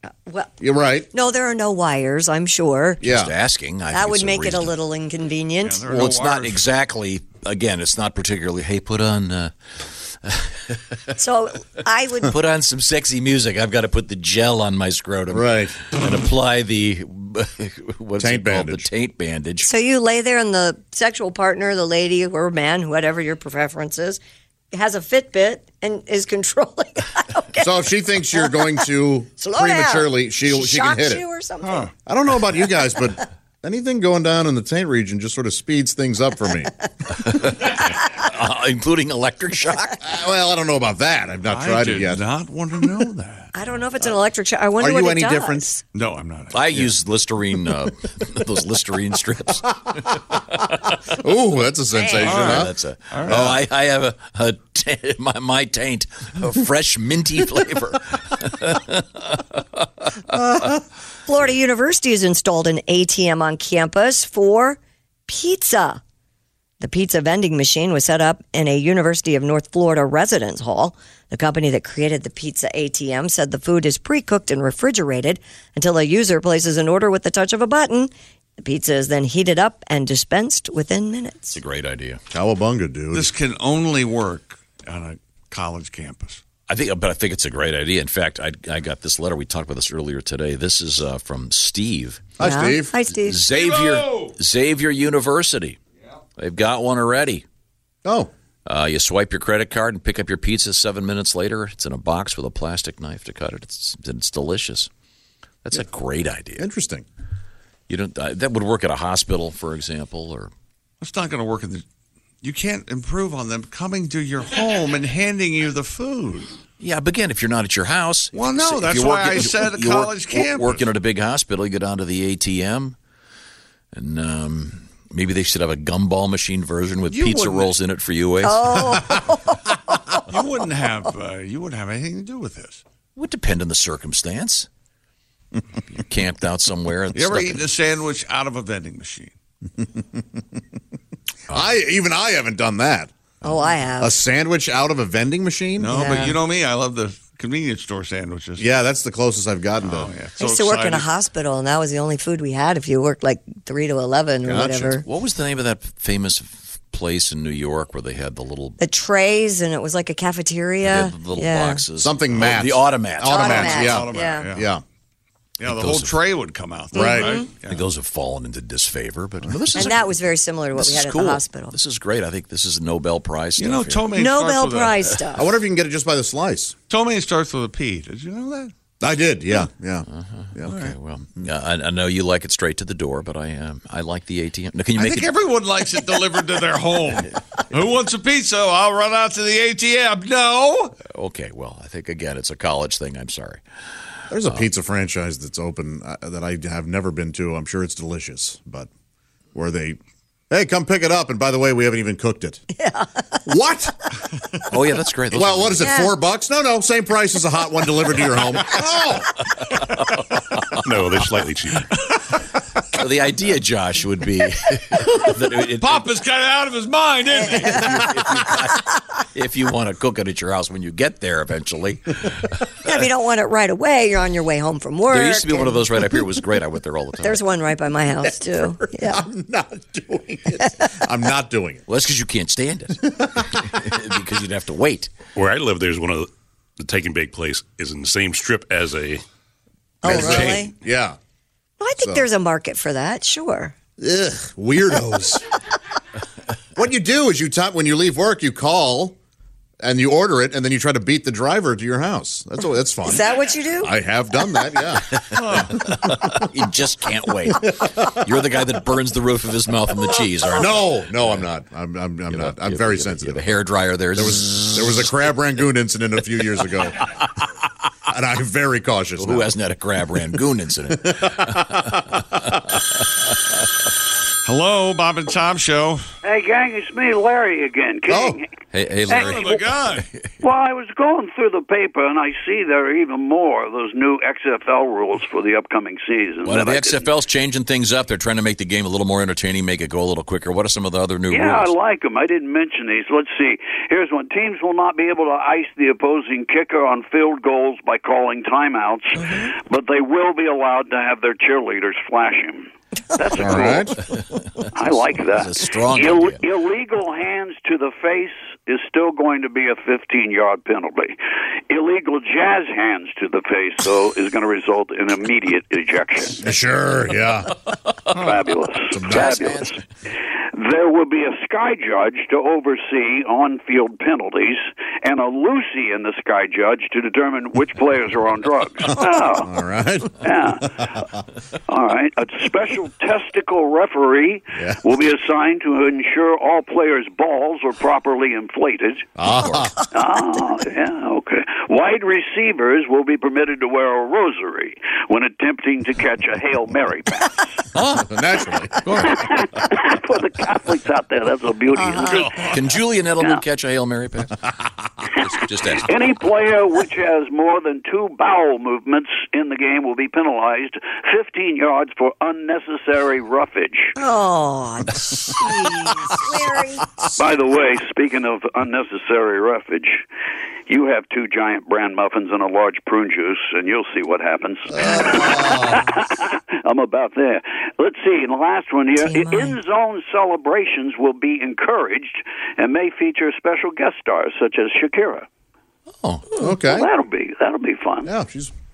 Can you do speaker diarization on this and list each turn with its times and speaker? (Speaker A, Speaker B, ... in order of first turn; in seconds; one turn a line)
Speaker A: 0.6-1.1
Speaker B: 1.1-3.0
Speaker C: 3.0-4.8
Speaker A: 3.0-3.3
Speaker B: 4.0-5.7
Speaker D: 5.6-6.7
Speaker C: 5.8-11.3
Speaker B: 11.2-12.1
Speaker C: 12.2-19.7
Speaker A: 15.3-15.9
Speaker A: 18.2-18.9
Speaker B: 19.6-24.2
Speaker B: 24.7-27.6
Speaker A: 27.6-31.3
Speaker B: 29.4-31.8
Speaker D: 31.6-31.9
Speaker A: 32.0-36.9
Speaker C: 37.2-40.0
Speaker A: 40.0-42.2
Speaker D: 41.4-43.6
Speaker B: 43.5-45.8
Speaker A: 44.8-45.8
Speaker D: 45.9-46.9
Speaker C: 46.5-51.0
Speaker A: 51.1-52.7
Speaker C: 52.1-60.6
Speaker D: 52.1-53.5
Speaker A: 60.3-60.7
Speaker B: 61.3-66.0
Speaker B: 66.8-81.5
Speaker C: 81.5-82.2
Speaker A: 82.3-83.3
Speaker D: 83.1-86.4
Speaker C: 86.7-92.4
Speaker A: 92.4-93.0
Speaker B: 92.4-93.4
Speaker C: 93.1-95.8
Speaker D: 93.5-94.3
Speaker C: 96.4-97.4
Speaker A: 98.0-98.3
Speaker C: 98.7-104.9
Speaker C: 105.6-106.7
Speaker A: 106.6-107.0
Speaker C: 107.9-110.5
Speaker D: 111.0-111.8
Speaker D: 112.4-116.5
Speaker C: 116.8-123.0
Speaker D: 118.3-120.8
Speaker C: 123.9-129.0
Speaker D: 127.1-127.7
Speaker B: 128.4-129.3
Speaker A: 128.8-129.2
Speaker D: 130.3-132.8
Speaker C: 133.2-134.7
Speaker C: 135.9-137.6
Speaker D: 137.1-139.3
Speaker A: 141.5-146.0
Speaker B: 143.4-144.1
Speaker D: 145.8-148.7
Speaker B: 146.0-146.4
Speaker A: 148.6-150.1
Speaker D: 149.8-151.1
Speaker B: 150.4-155.0
Speaker A: 154.4-155.0
Speaker C: 155.0-158.8
Speaker B: 158.8-161.8
Speaker C: 160.8-164.0
Speaker A: 162.0-164.8
Speaker D: 163.3-164.7
Speaker B: 163.3-164.4
Speaker D: 165.6-167.8
Speaker C: 165.7-166.1
Speaker A: 166.9-167.4
Speaker B: 167.0-167.4
Speaker C: 167.6-174.2
Speaker B: 169.8-171.7
Speaker D: 173.6-175.2
Speaker B: 174.2-175.4
Speaker A: 175.3-176.7
Speaker D: 176.9-178.7
Speaker A: 179.0-180.8
Speaker C: 180.1-185.3
Speaker D: 180.7-180.9
Speaker D: 185.0-190.9
Speaker C: 191.0-193.6
Speaker A: 194.3-198.9
Speaker A: 199.5-200.0
Speaker A: 200.5-202.7
Speaker B: 202.8-203.2
Speaker A: 203.5-204.6
Speaker C: 204.7-206.0
Speaker A: 205.3-209.6
Speaker E: 210.8-211.9
Speaker C: 212.9-216.1
Speaker D: 215.8-217.9
Speaker C: 217.5-222.7
Speaker B: 222.8-225.7
Speaker C: 225.1-227.4
Speaker B: 227.3-229.2
Speaker A: 228.2-231.8
Speaker C: 231.9-235.1
Speaker A: 233.2-233.5
Speaker E: 235.3-239.2
Speaker B: 240.0-240.7
Speaker E: 240.0-240.6
Speaker A: 240.0-241.2
Speaker B: 241.8-243.7
Speaker A: 242.0-242.3
Speaker A: 244.0-245.4
Speaker A: 246.8-249.2
Speaker A: 249.8-256.0
Speaker B: 253.2-253.9
Speaker C: 255.1-261.5
Speaker D: 255.4-255.7
Speaker A: 260.5-263.5
Speaker C: 262.3-265.0
Speaker A: 264.1-267.1
Speaker A: 268.1-269.5
Speaker C: 269.2-272.1
Speaker A: 271.1-272.4
Speaker D: 274.4-276.0
Speaker F: 276.2-278.4
Speaker A: 278.1-278.4
Speaker C: 278.7-280.3
Speaker D: 279.1-280.1
Speaker F: 279.1-279.5
Speaker F: 280.4-287.1
Speaker C: 286.4-291.7
Speaker F: 291.3-304.0
Speaker A: 303.3-304.0
Speaker C: 304.1-306.4
Speaker F: 304.7-311.2
Speaker F: 311.7-316.4
Speaker A: 316.4-317.6
Speaker F: 318.1-319.8
Speaker A: 318.9-319.2
Speaker C: 319.0-319.8
Speaker F: 320.5-329.5
Speaker A: 329.3-330.9
Speaker F: 330.2-331.1
Speaker F: 331.7-339.1
Speaker A: 334.6-334.8
Speaker A: 339.2-339.9
Speaker F: 339.9-347.6
Speaker C: 347.8-348.0
Speaker A: 347.8-349.2
Speaker F: 348.9-352.5
Speaker B: 351.8-352.0
Speaker C: 352.4-354.4
Speaker C: 355.1-356.0
Speaker F: 355.8-364.0
Speaker B: 364.0-365.6
Speaker A: 365.1-366.2
Speaker B: 366.2-366.8
Speaker F: 367.1-370.0
Speaker F: 370.7-385.2
Speaker A: 374.7-375.9
Speaker B: 379.0-379.6
Speaker C: 386.0-386.4
Speaker A: 386.3-386.9
Speaker F: 386.4-388.1
Speaker A: 388.0-388.5